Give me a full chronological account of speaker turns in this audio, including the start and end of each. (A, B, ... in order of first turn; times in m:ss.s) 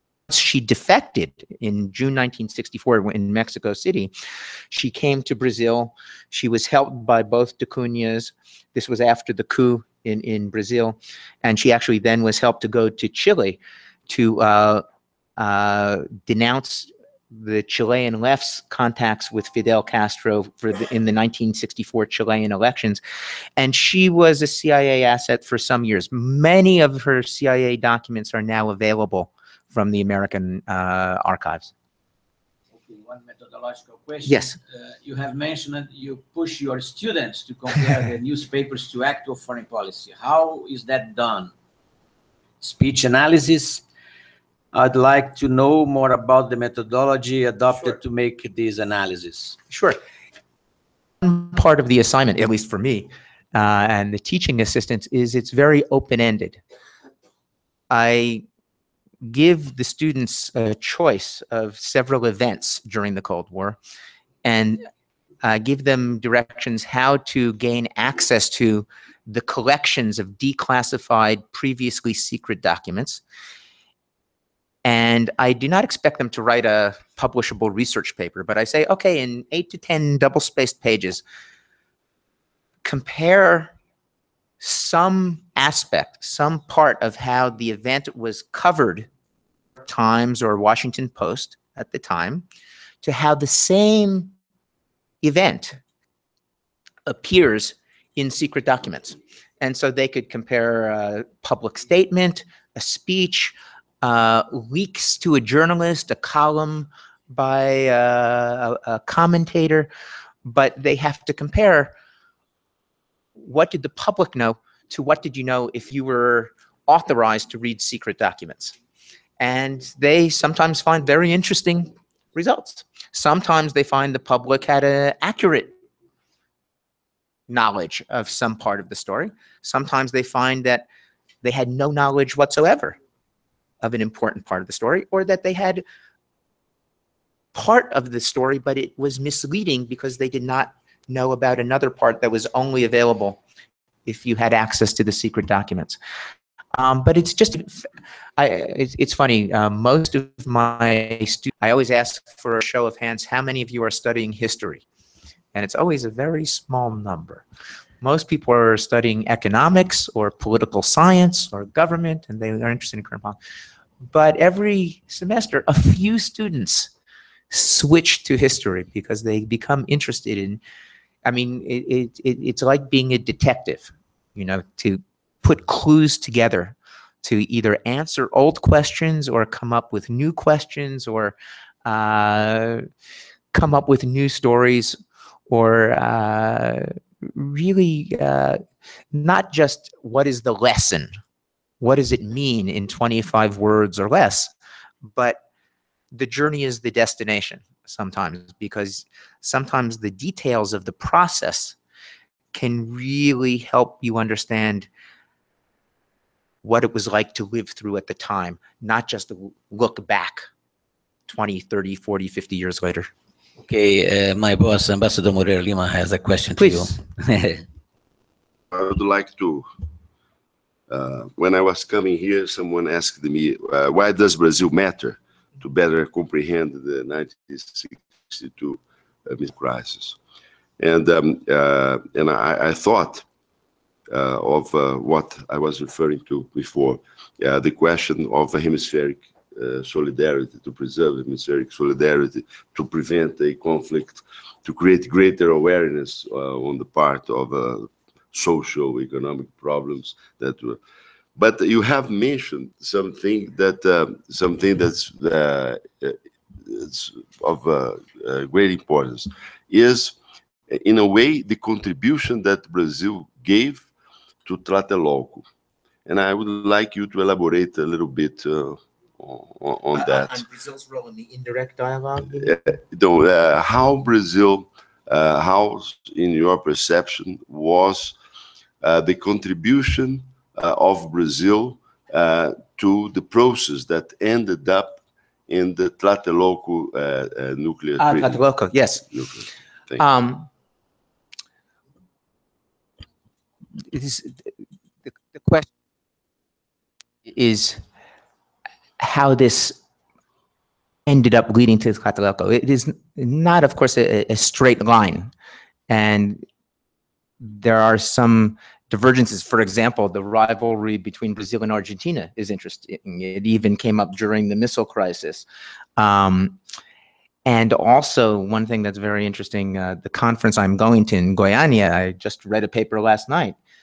0:00.3-0:04.1 A
0:04.7-0:14.8 A
0:15.4-0:23.0 A
0:23.6-0:31.7 A
0:32.8-0:41.5 B
0:34.3-0:34.6 A
0:42.6-0:43.8 B
0:44.7-0:49.6 B
0:49.7-0:50.0 A
0:51.2-0:56.6 A
0:57.9-0:58.4 A
0:59.2-1:03.8 A
1:04.4-1:04.8 A
1:05.4-1:13.2 A
1:14.8-1:21.2 A
1:22.8-1:23.7 A
1:24.6-1:29.1 A
1:29.9-1:32.5 A
1:33.0-1:34.3 A
1:35.2-1:35.8 A
1:37.1-1:49.9 A
1:50.4-1:51.9 A
1:53.4-1:58.8 A
1:59.4-2:05.7 A
2:07.5-2:10.9 A
2:11.4-2:13.0 A
2:13.8-2:15.8 A
2:17.5-2:23.4 A
2:24.1-2:26.0 A
2:26.8-2:34.8 A
2:35.5-2:37.4 A
2:38.0-2:43.4 A
2:44.1-2:46.9 A
2:47.5-2:50.6 A
2:51.2-3:02.9 A
3:03.5-3:05.0 A
3:05.5-3:08.6 A
3:09.1-3:11.1 A
3:11.8-3:14.5 A
3:15.1-3:15.4 A
3:16.1-3:21.8 A
3:22.5-3:24.9 A
3:26.6-3:30.4 A
3:31.3-3:33.1 A
3:33.6-3:37.6 B
3:36.6-3:37.0 A
3:38.7-3:39.7 C
3:40.9-3:50.2 C
3:50.8-3:53.2 C
3:54.1-4:10.8 C
4:11.4-4:20.2 C
4:20.7-4:23.9 C
4:24.4-4:25.4 C
4:26.1-4:30.4 C
4:29.9-4:32.6 A
4:32.4-4:38.2 C
4:38.8-4:48.4 C
4:48.0-4:49.1 A
4:49.1-4:50.0 C
4:50.0-4:50.5 A
4:53.9-4:54.5 A
4:55.1-4:55.7 A
4:57.3-4:57.8 A
4:59.0-4:59.8 A
5:01.1-5:05.3 A
5:05.9-5:06.4 A
5:07.4-5:15.4 A
5:16.0-5:16.6 A
5:17.5-5:23.6 A